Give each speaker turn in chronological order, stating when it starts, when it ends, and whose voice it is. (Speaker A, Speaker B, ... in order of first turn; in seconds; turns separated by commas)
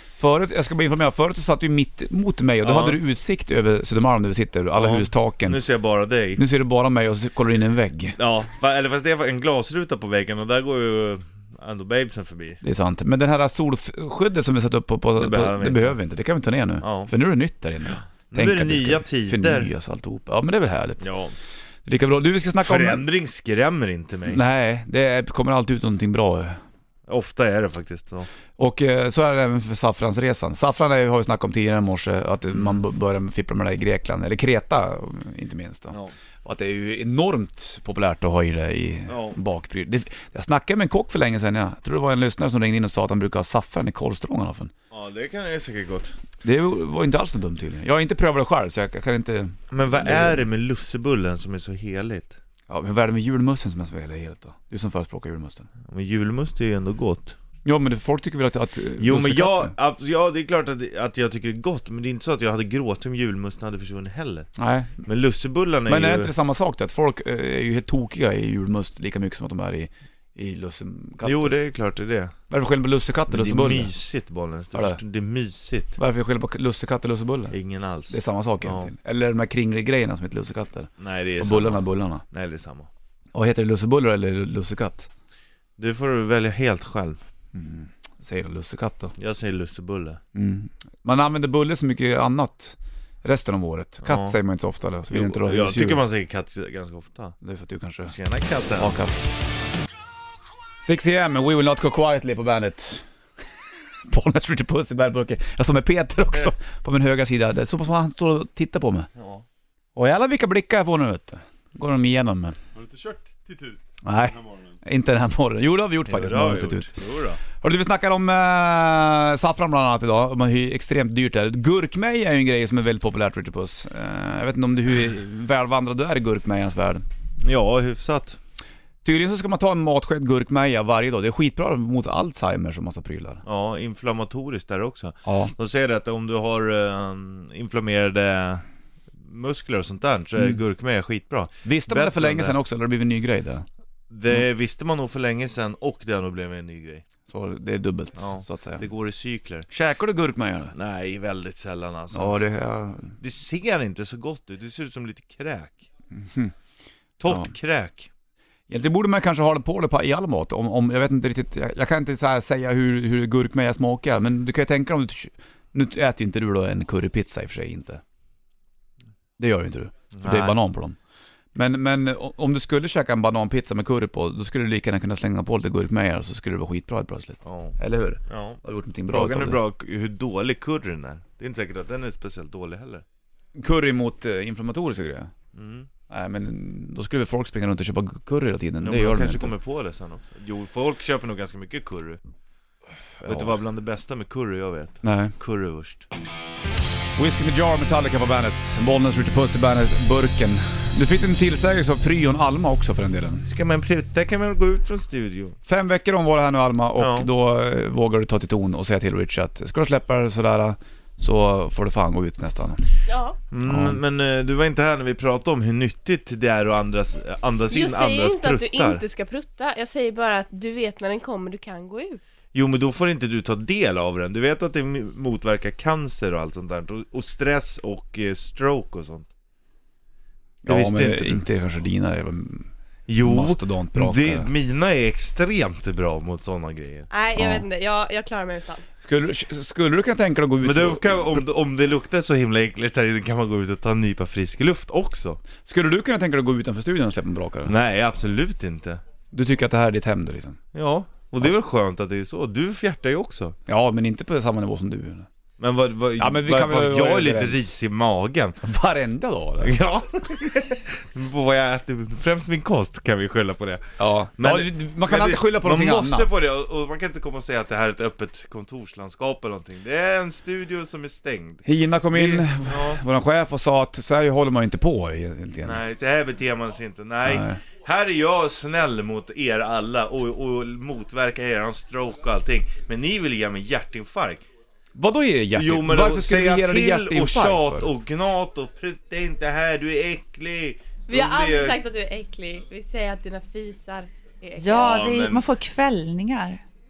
Speaker A: 0.2-5.6, Speaker B: 2.6-3.0, Speaker B: 4.7-6.4, Speaker A: 6.4-8.2, Speaker B: 8.2-12.6, Speaker A: 12.6-21.1, Speaker B: 15.2-16.0, Speaker B: 16.8-17.1, Speaker B: 18.3-19.7, Speaker B: 21.0-21.3, Speaker A: 21.9-23.0, Speaker B: 22.6-24.4, Speaker A: 24.3-26.6, Speaker B: 27.1-28.3, Speaker A: 28.6-44.7, Speaker B: 32.5-32.8, Speaker B: 39.1-39.4, Speaker B: 44.9-46.1, Speaker A: 46.4-50.4, Speaker B: 49.7-52.4, Speaker A: 52.7-55.7, Speaker B: 55.9-57.4, Speaker A: 57.6-59.7, Speaker B: 59.0-64.5, Speaker A: 64.6-65.0, Speaker B: 65.0-66.3, Speaker A: 65.9-71.5, Speaker B: 71.2-72.3, Speaker A: 72.5-73.9, Speaker B: 73.3-76.0, Speaker A: 74.7-75.0, Speaker A: 76.0-77.6, Speaker B: 77.5-78.9, Speaker A: 78.1-82.2, Speaker B: 81.0-82.9, Speaker A: 83.3-85.1, Speaker B: 85.8-87.2, Speaker A: 87.5-89.2, Speaker B: 89.2-90.2, Speaker A: 90.3-96.0, Speaker B: 94.0-94.4, Speaker B: 95.1-97.4, Speaker A: 97.4-98.2, Speaker B: 98.1-99.0, Speaker A: 98.8-99.3, Speaker A: 100.8-103.0, Speaker A: 104.0-109.1, Speaker B: 109.2-109.5, Speaker A: 110.0-112.6, Speaker B: 112.8-113.8, Speaker A: 114.0-117.0, Speaker B: 116.0-117.4, Speaker A: 117.5-127.0, Speaker B: 127.4-128.4, Speaker A: 129.0-133.4, Speaker B: 133.4-138.6, Speaker A: 135.3-135.5, Speaker B: 139.2-142.6, Speaker A: 141.6-143.7, Speaker B: 144.1-147.1, Speaker A: 147.3-148.9, Speaker B: 148.2-149.7, Speaker A: 149.7-150.8, Speaker B: 150.7-152.4, Speaker A: 152.1-153.1, Speaker B: 153.2-155.9, Speaker A: 156.2-156.5, Speaker B: 157.2-158.1, Speaker A: 157.3-157.5, Speaker A: 158.7-168.0, Speaker A: 169.4-171.0, Speaker B: 170.1-170.6, Speaker A: 171.6-179.6, Speaker B: 177.4-183.1, Speaker A: 183.6-185.3, Speaker B: 185.5-185.9, Speaker A: 186.1-189.5, Speaker B: 188.8-192.2, Speaker A: 193.2-193.6, Speaker B: 193.2-196.1, Speaker A: 195.0-195.4, Speaker A: 197.2-203.4, Speaker B: 203.4-205.6, Speaker A: 205.7-212.8, Speaker B: 207.0-207.3, Speaker C: 213.1-213.4, Speaker B: 213.5-219.0, Speaker A: 213.7-214.0, Speaker C: 217.7-222.2, Speaker B: 222.5-229.3, Speaker A: 230.6-232.7, Speaker B: 230.7-231.4, Speaker B: 233.1-237.1, Speaker A: 233.2-234.5, Speaker C: 237.1-238.8, Speaker A: 237.4-237.6, Speaker A: 239.0-241.4, Speaker B: 240.6-245.4, Speaker A: 245.6-247.7, Speaker B: 247.7-249.0, Speaker A: 249.3-250.6, Speaker B: 250.7-253.6, Speaker A: 253.7-255.3, Speaker B: 255.6-258.6, Speaker A: 256.2-257.7, Speaker A: 258.6-259.8, Speaker B: 259.6-263.9, Speaker A: 264.0-266.3, Speaker B: 264.4-273.0, Speaker A: 271.6-275.8, Speaker B: 275.6-284.5, Speaker A: 277.2-277.6, Speaker A: 285.0-287.9, Speaker B: 285.5-291.8, Speaker C: 291.1-295.0, Speaker D: 294.6-296.6, Speaker B: 294.7-295.5